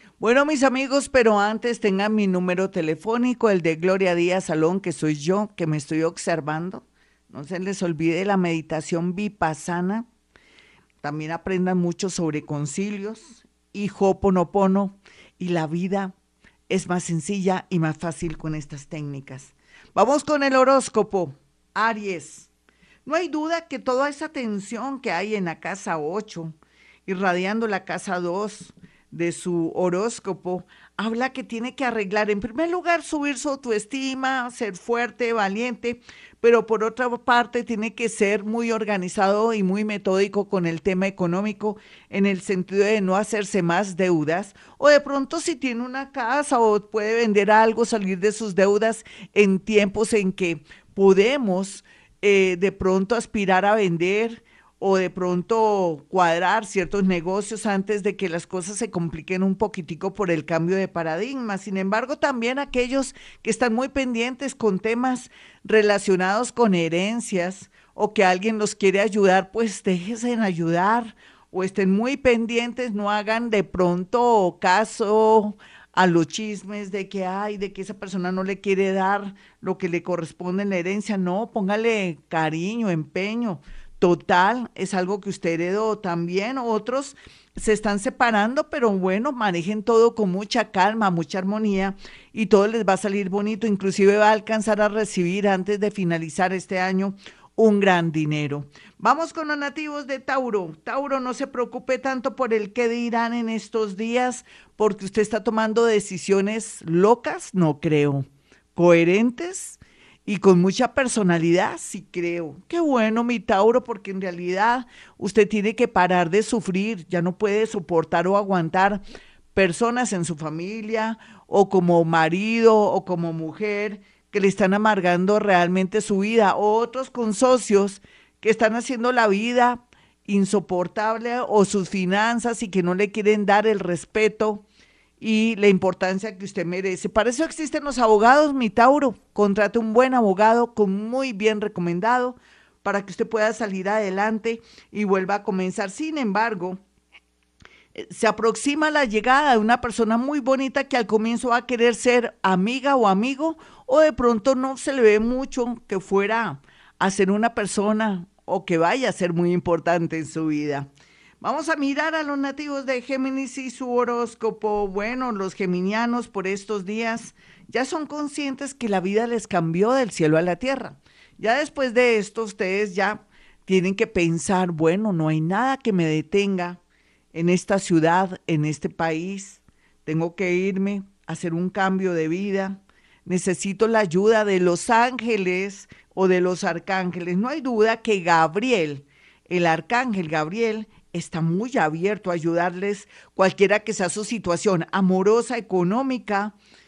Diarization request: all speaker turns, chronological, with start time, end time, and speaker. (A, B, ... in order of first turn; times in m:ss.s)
0:00.2-0:10.1 A
0:11.0-0:16.2 A
0:16.7-0:22.5 A
0:23.0-0:26.6 A
0:27.1-1:59.0 A
1:59.5-2:14.6 A
2:15.2-2:26.8 A
2:28.0-2:40.9 A
2:41.4-2:56.8 A
2:57.3-3:16.6 A